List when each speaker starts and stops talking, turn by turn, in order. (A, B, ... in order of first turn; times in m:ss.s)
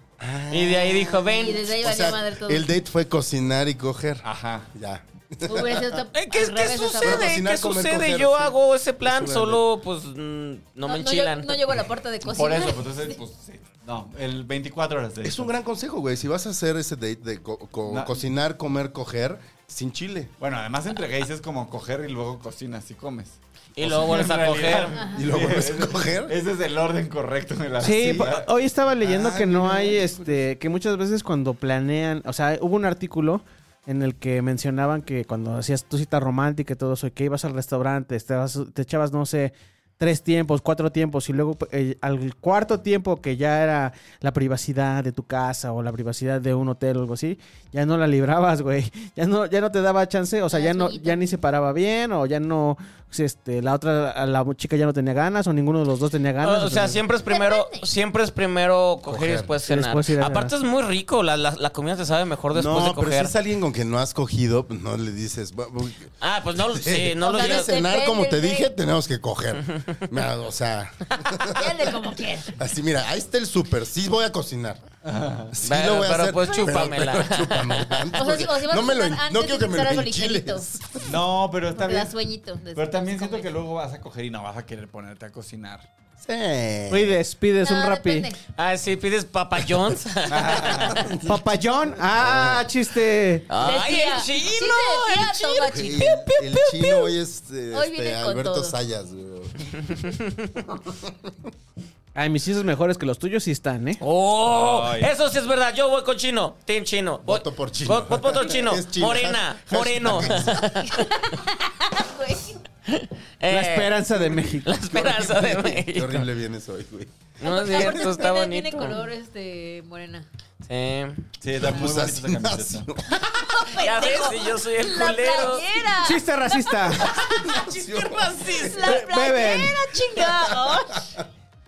0:00.2-0:06.0 A
0:00.5-0:01.7 B
0:01.2-0:02.6 C
0:04.2-0:04.7 D
0:05.4-0:07.3 C
0:06.2-0:11.8 B
0:07.0-0:09.6 A
0:10.8-0:13.2 C
0:12.2-0:15.5 D
0:15.2-0:20.3 A
0:17.9-0:18.2 D
0:20.4-0:28.5 D
0:23.8-0:25.0 B
0:24.9-0:25.3 C
0:25.2-0:26.3 A
0:27.8-0:57.0 E
0:27.8-0:28.3 A
0:29.0-0:30.5 A
0:50.5-0:51.2 C
0:56.4-1:03.3 B
0:57.3-0:57.9 C
0:59.1-0:59.5 A
0:59.7-1:00.5 E
1:02.5-1:12.0 A
1:06.2-1:07.8 B
1:07.2-1:08.7 C
1:09.6-1:10.0 B
1:11.5-1:12.6 C
1:12.5-1:14.8 A
1:15.0-1:15.6 D
1:15.5-1:21.1 A
1:15.6-1:18.5 B
1:18.2-1:20.6 C
1:21.0-1:22.2 D
1:21.7-1:23.5 C
1:22.7-1:25.9 D
1:26.2-1:27.2 A
1:26.9-1:28.3 E
1:27.6-1:28.4 C
1:28.6-1:31.1 B
1:30.3-1:31.1 D
1:30.9-1:31.4 A
1:31.2-1:33.5 E
1:32.0-1:32.7 A
1:33.5-1:36.9 B
1:33.6-1:36.4 C
1:35.7-1:40.1 A
1:37.7-1:38.8 C
1:40.0-1:40.6 B
1:40.8-1:41.3 A
1:42.2-1:44.0 E
1:44.0-1:51.0 B
1:44.5-1:45.1 D
1:47.2-1:50.6 A
1:50.3-1:52.6 C
1:52.9-1:56.2 B
1:53.5-1:54.7 E
1:54.1-1:58.1 A
1:57.4-2:00.3 C
1:57.4-1:59.0 B
2:00.7-2:01.3 B
2:01.4-2:02.9 D
2:01.6-2:03.7 A
2:03.2-2:07.7 C
2:03.8-2:05.7 B
2:06.0-2:07.0 E
2:07.2-2:09.0 A
2:07.5-2:08.9 B
2:08.4-2:11.1 C
2:08.8-2:09.8 E
2:10.1-2:10.8 A